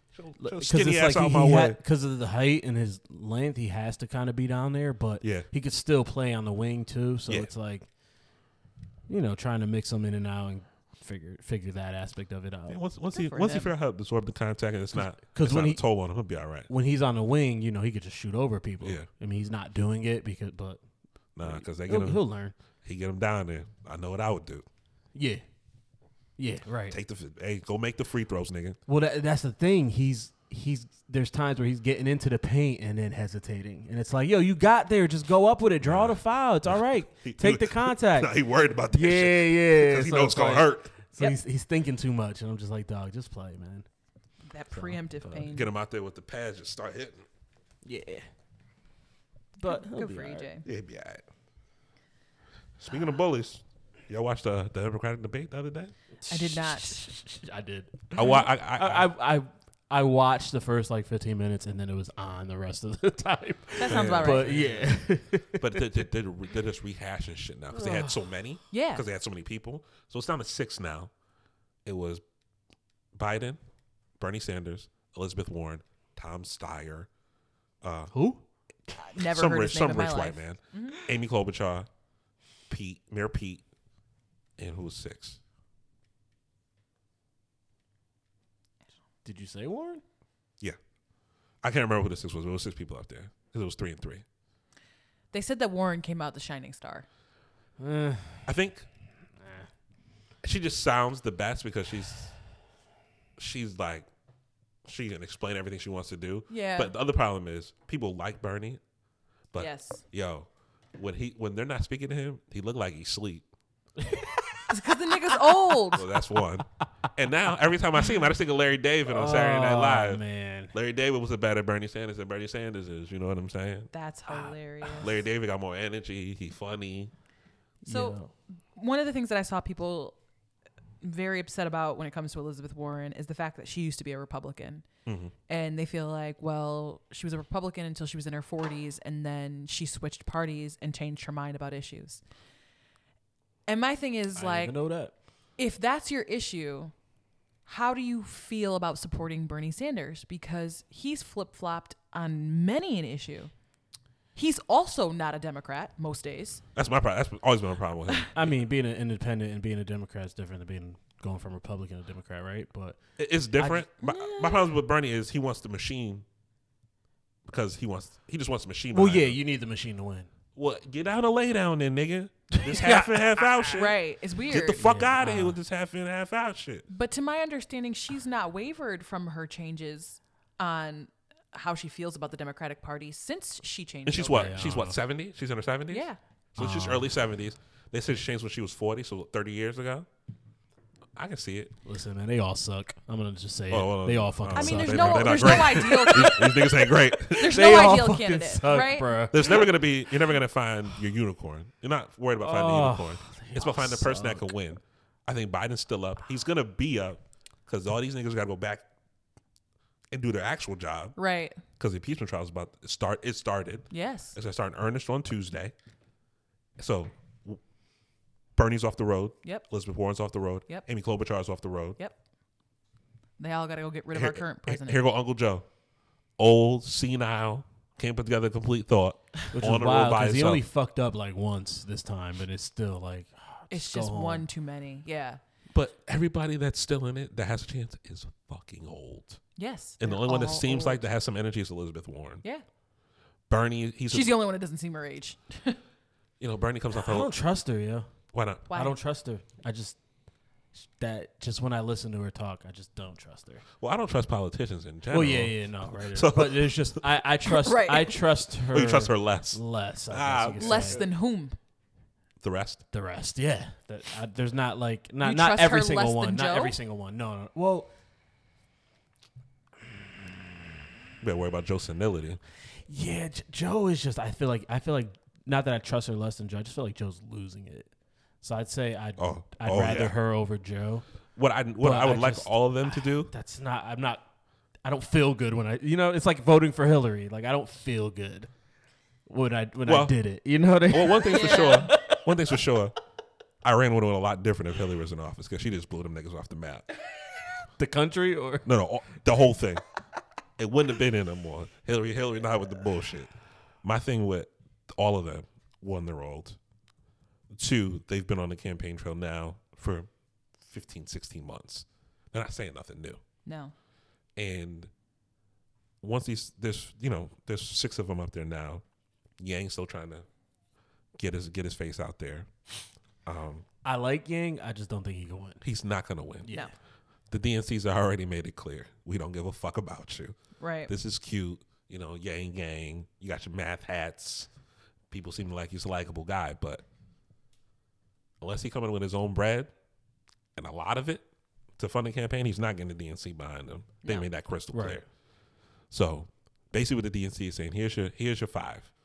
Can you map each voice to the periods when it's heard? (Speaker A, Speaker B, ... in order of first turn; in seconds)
Speaker A: 0.1-1.8, 5.2-5.5, 12.7-16.7, 18.8-19.1, 21.4-22.3, 22.8-24.6, 26.9-28.8, 35.8-40.9, 45.5-47.2, 50.6-51.2, 52.8-55.9, 58.1-59.1, 63.8-64.8, 65.5-71.1, 71.8-72.2, 73.1-73.6, 74.2-77.1, 77.8-78.1, 78.9-81.9, 82.7-83.6, 84.6-85.4, 91.6-94.2, 98.5-98.9, 100.4-102.3, 103.4-104.1, 104.8-108.8, 109.5-113.4, 115.9-120.2, 120.7-123.9, 125.0-127.1, 135.1-135.3, 156.8-158.6, 163.2-166.2, 167.4-169.4, 170.6-176.8, 184.1-190.1, 191.1-191.7, 193.7-197.9, 199.3-208.8, 210.1-211.2, 211.8-215.7, 216.8-217.6, 218.6-222.0, 224.1-225.7, 226.4-230.6, 235.7-239.4, 240.0-242.4, 243.5-244.3, 246.4-247.3, 248.3-248.7, 253.8-257.0, 258.7-261.1, 262.4-262.8, 271.2-272.4, 279.2-280.1, 281.4-283.3, 289.8-290.1, 290.9-292.9, 293.6-296.9, 298.6-299.8, 300.6-303.3, 303.8-306.6, 307.5-310.1, 310.6-313.2, 314.4-314.9, 316.0-318.8, 319.4-320.2, 321.2-322.5, 323.2-323.6, 325.6-326.5, 327.3-330.4, 330.9-334.5, 335.1-336.8, 338.4-339.7, 340.6-341.2, 341.8-345.0, 345.9-348.9
Speaker B: 0.4-7.9, 9.1-12.8, 14.9-15.8, 16.7-20.8, 21.4-22.5, 25.1-25.4, 26.4-26.9, 28.9-38.3, 38.9-43.9, 44.7-45.5, 47.8-48.2, 49.6-50.5, 56.2-65.8, 67.7-68.2, 78.1-78.4, 89.2-90.0, 97.8-98.5, 99.4-99.7, 114.0-114.7, 119.1-120.7, 124.3-125.0, 127.8-128.3, 144.3-145.1, 158.3-163.0, 163.6-164.7, 168.9-170.3, 174.8-175.6, 184.2-184.9, 186.6-187.1, 191.8-196.3, 197.3-199.7, 202.4-204.5, 229.5-234.4, 246.9-248.1, 248.7-250.0, 250.7-253.6, 255.1-261.0, 262.9-267.9, 272.9-277.9, 278.4-281.0, 281.8-284.2, 284.8-288.5, 289.3-292.2, 297.8-298.7, 323.8-325.6, 326.4-326.7, 344.7-345.0
Speaker C: 13.1-13.7, 44.5-45.7, 49.6-50.6, 56.3-57.0, 58.2-58.5, 63.8-64.8, 68.7-69.0, 78.9-81.0, 95.3-97.0, 106.5-106.9, 109.5-110.0, 114.7-116.0, 123.9-125.1, 127.9-128.2, 128.8-130.2, 131.0-134.8, 135.5-142.2, 143.7-144.8, 145.6-146.9, 147.7-153.5, 154.3-156.6, 172.7-174.8, 176.9-184.5, 185.9-186.2, 194.5-196.7, 197.3-199.2, 211.2-211.6, 213.9-214.3, 223.4-225.0, 233.7-235.4, 239.6-241.0, 244.1-245.8, 248.7-249.0, 257.4-258.2, 260.6-261.6, 265.2-266.8, 291.3-291.9, 313.4-313.7, 330.6-330.9, 344.0-344.3